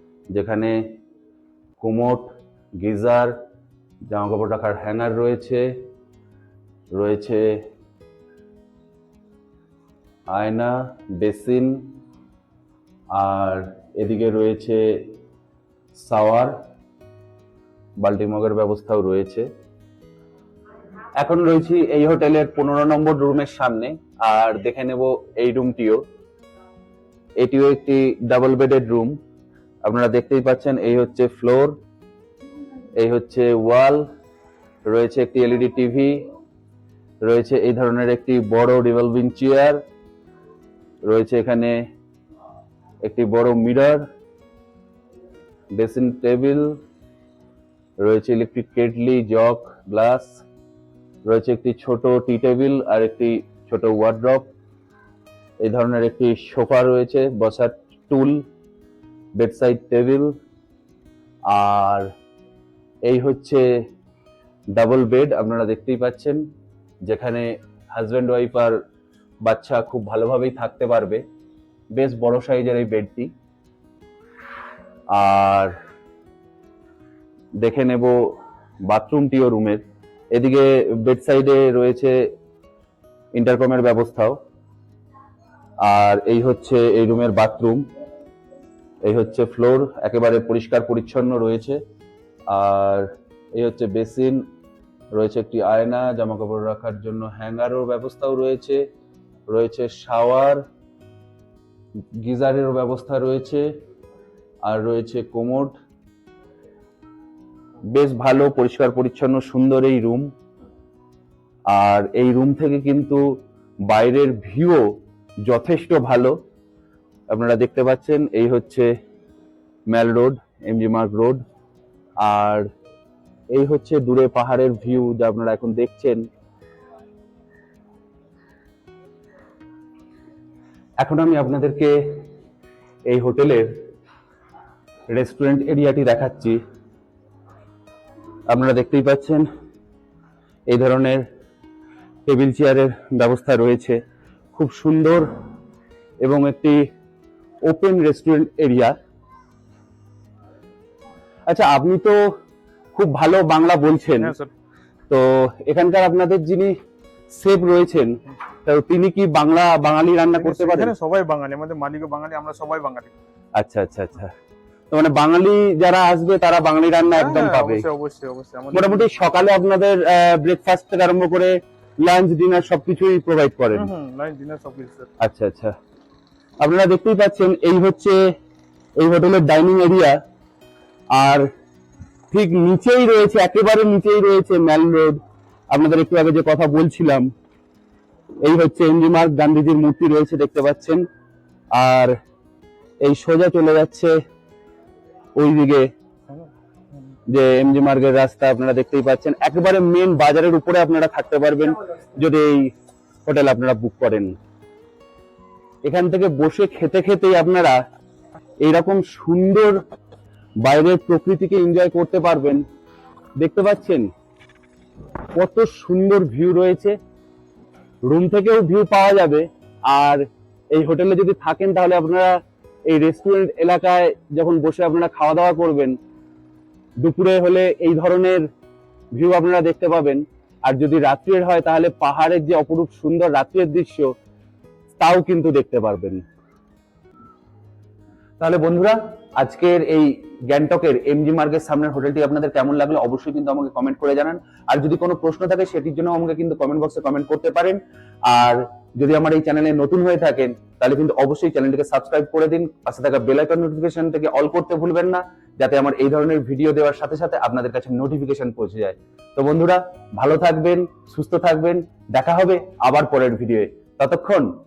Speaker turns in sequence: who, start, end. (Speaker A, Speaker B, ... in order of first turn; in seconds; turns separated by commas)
Speaker A: 0.3-0.7, Speaker A: 1.8-2.3, Speaker A: 2.8-3.3, Speaker A: 4.1-5.7, Speaker A: 6.9-7.4, Speaker A: 10.3-11.8, Speaker A: 13.1-15.1, Speaker A: 15.9-16.5, Speaker A: 18.0-19.4, Speaker A: 21.2-26.0, Speaker A: 27.4-29.1, Speaker A: 29.8-31.7, Speaker A: 33.0-34.0, Speaker A: 34.9-36.2, Speaker A: 37.2-39.8, Speaker A: 41.0-41.8, Speaker A: 43.0-44.0, Speaker A: 45.7-46.8, Speaker A: 48.0-50.4, Speaker A: 51.2-54.5, Speaker A: 55.6-58.4, Speaker A: 59.4-60.3, Speaker A: 61.5-62.1, Speaker A: 63.0-63.6, Speaker A: 64.7-66.4, Speaker A: 67.0-68.8, Speaker A: 69.4-71.2, Speaker A: 72.0-73.3, Speaker A: 75.1-75.7, Speaker A: 77.6-79.8, Speaker A: 80.3-82.2, Speaker A: 83.3-84.4, Speaker A: 85.8-87.8, Speaker A: 89.0-91.8, Speaker A: 92.5-94.4, Speaker A: 95.1-98.8, Speaker A: 99.5-100.6, Speaker A: 102.2-103.7, Speaker A: 104.6-105.7, Speaker A: 107.9-110.3, Speaker A: 111.7-113.3, Speaker A: 113.9-114.8, Speaker A: 115.4-116.3, Speaker A: 117.3-118.9, Speaker A: 119.9-121.4, Speaker A: 122.2-122.6, Speaker A: 123.5-126.3, Speaker A: 131.0-132.2, Speaker A: 133.1-133.8, Speaker A: 135.1-136.6, Speaker A: 138.5-139.4, Speaker A: 140.7-141.2, Speaker A: 142.2-144.0, Speaker A: 144.5-145.3, Speaker A: 146.2-146.8, Speaker A: 147.6-148.9, Speaker A: 151.5-152.2, Speaker A: 152.9-154.3, Speaker B: 154.2-154.5, Speaker A: 155.1-156.7, Speaker A: 157.3-160.9, Speaker B: 160.4-163.1, Speaker A: 163.6-164.3, Speaker A: 164.9-167.8, Speaker B: 167.1-169.1, Speaker A: 168.7-173.9, Speaker B: 173.7-175.1, Speaker A: 175.2-175.7, Speaker A: 176.6-178.3, Speaker A: 179.0-180.2, Speaker A: 181.1-181.5, Speaker A: 182.3-185.2, Speaker A: 185.7-187.3, Speaker A: 188.4-191.0, Speaker A: 191.7-192.2, Speaker A: 193.0-194.2, Speaker A: 195.3-195.9, Speaker B: 196.3-197.2, Speaker A: 197.3-202.7, Speaker A: 203.2-204.3, Speaker A: 205.8-207.8, Speaker A: 208.6-209.8, Speaker A: 210.6-212.6, Speaker A: 213.4-214.1, Speaker A: 215.3-216.9, Speaker A: 218.0-226.0, Speaker A: 227.0-228.4, Speaker A: 229.1-234.1, Speaker A: 235.0-236.2, Speaker A: 238.4-264.5